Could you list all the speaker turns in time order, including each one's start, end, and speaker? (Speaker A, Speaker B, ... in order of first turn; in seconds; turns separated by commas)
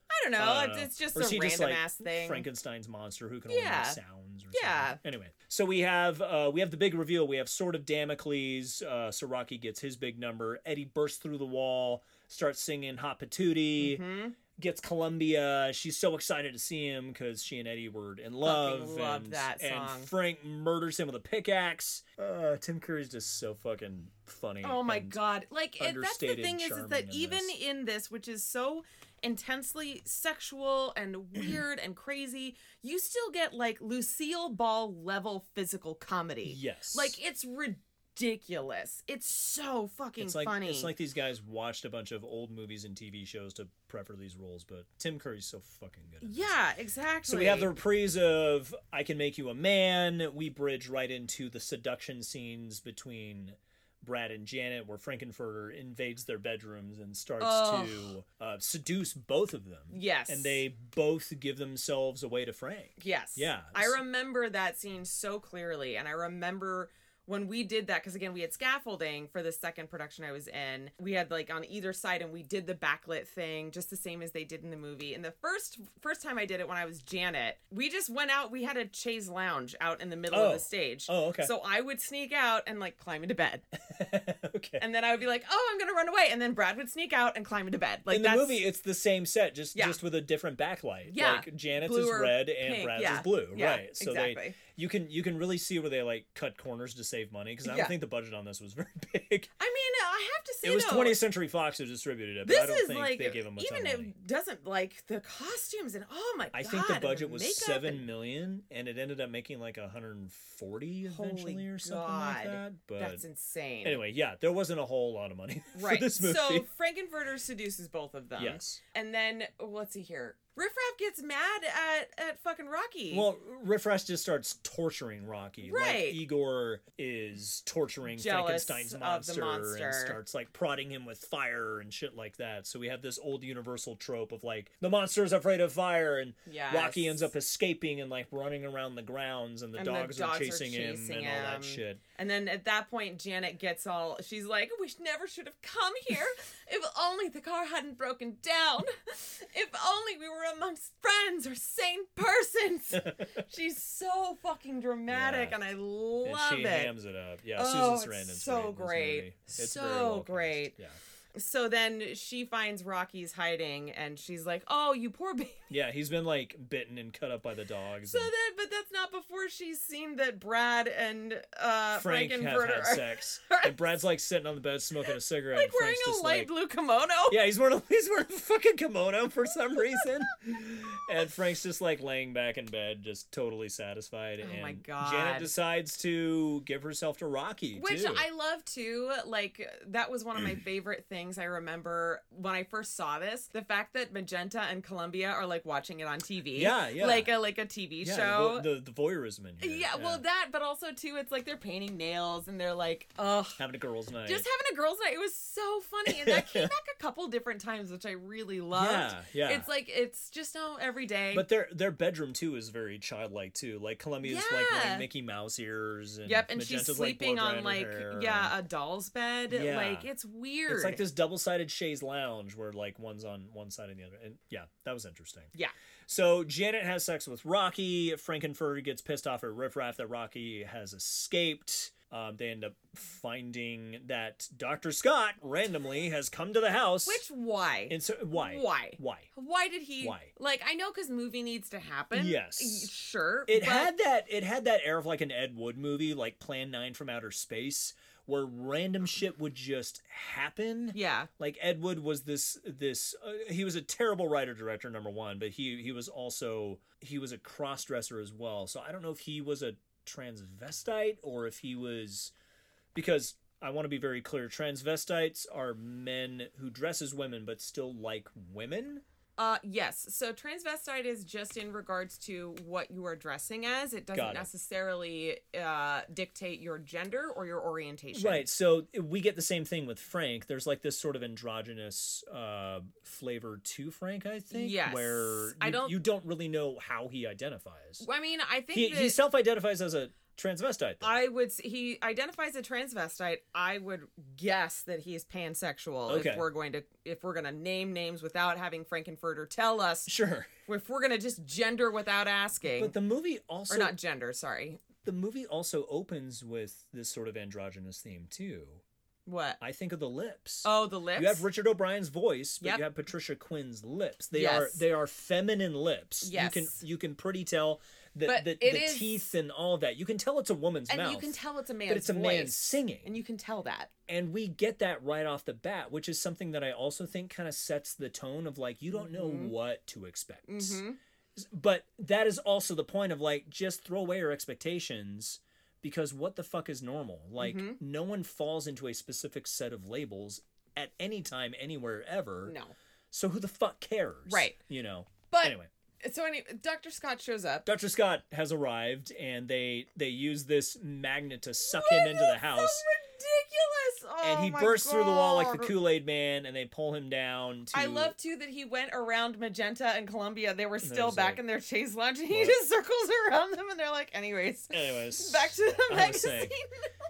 Speaker A: 0.1-2.5, Speaker B: 0.4-14.0, Speaker A: 3.5-4.0, Speaker A: 4.5-5.0, Speaker A: 13.8-14.4, Speaker B: 14.6-25.2, Speaker A: 18.4-20.1, Speaker A: 24.6-40.9, Speaker B: 25.8-27.5, Speaker B: 36.5-37.2, Speaker B: 40.2-46.6, Speaker A: 46.2-47.7, Speaker B: 47.2-64.0, Speaker A: 57.4-58.1, Speaker A: 59.9-60.6, Speaker A: 63.0-83.7, Speaker B: 80.3-81.5, Speaker B: 83.8-84.8, Speaker A: 84.8-88.7, Speaker B: 88.1-99.5, Speaker A: 89.7-90.0, Speaker A: 91.1-94.6, Speaker A: 97.6-97.9, Speaker A: 99.6-101.2, Speaker B: 100.6-104.1, Speaker A: 102.5-108.1, Speaker B: 106.5-113.2, Speaker A: 111.1-114.0, Speaker B: 113.8-116.7, Speaker A: 115.7-123.3, Speaker B: 118.4-118.8, Speaker B: 123.1-142.0, Speaker A: 125.6-126.2, Speaker A: 128.1-130.2, Speaker A: 136.5-137.3, Speaker A: 139.8-156.9, Speaker B: 155.1-155.6, Speaker B: 156.2-161.0, Speaker A: 157.6-160.8, Speaker A: 161.3-165.6, Speaker B: 165.7-168.3, Speaker A: 168.1-173.8, Speaker B: 171.9-176.5, Speaker A: 175.1-177.4, Speaker B: 177.3-188.3, Speaker A: 184.4-185.5, Speaker A: 187.7-198.7, Speaker B: 196.6-197.3, Speaker B: 198.0-200.2, Speaker A: 199.6-203.6, Speaker B: 203.6-204.5, Speaker A: 204.2-211.5, Speaker B: 206.1-206.7, Speaker B: 208.7-209.7, Speaker B: 211.3-218.5, Speaker A: 214.2-215.1, Speaker A: 216.3-221.0, Speaker B: 219.5-220.1, Speaker B: 220.7-225.5, Speaker B: 226.1-237.2, Speaker A: 237.1-243.9, Speaker B: 237.9-239.3, Speaker B: 240.0-240.3, Speaker B: 242.1-242.9, Speaker B: 243.5-262.3, Speaker A: 250.9-251.3, Speaker B: 262.9-269.0, Speaker A: 269.4-278.5, Speaker B: 274.1-274.5, Speaker B: 278.1-288.1, Speaker A: 284.5-286.0, Speaker A: 288.0-289.2, Speaker B: 288.7-291.1, Speaker A: 291.0-300.1, Speaker B: 296.1-296.5, Speaker B: 300.1-300.5, Speaker A: 300.7-302.9, Speaker B: 302.7-303.9, Speaker A: 303.7-304.9, Speaker B: 305.0-308.8, Speaker A: 309.3-309.6, Speaker B: 309.6-323.1, Speaker A: 310.6-311.5, Speaker A: 314.3-314.9, Speaker A: 316.2-316.8, Speaker A: 318.3-319.1, Speaker A: 320.9-323.9, Speaker B: 324.1-330.8, Speaker A: 328.9-329.5, Speaker A: 330.5-331.0, Speaker B: 331.4-342.6, Speaker A: 337.4-337.8, Speaker A: 342.4-342.8, Speaker B: 343.1-345.7, Speaker A: 344.3-344.6, Speaker A: 345.3-347.7, Speaker B: 347.6-352.9, Speaker A: 351.6-355.7, Speaker B: 354.2-358.1, Speaker A: 357.7-366.7, Speaker B: 360.8-361.4, Speaker B: 362.3-362.6, Speaker B: 364.7-366.6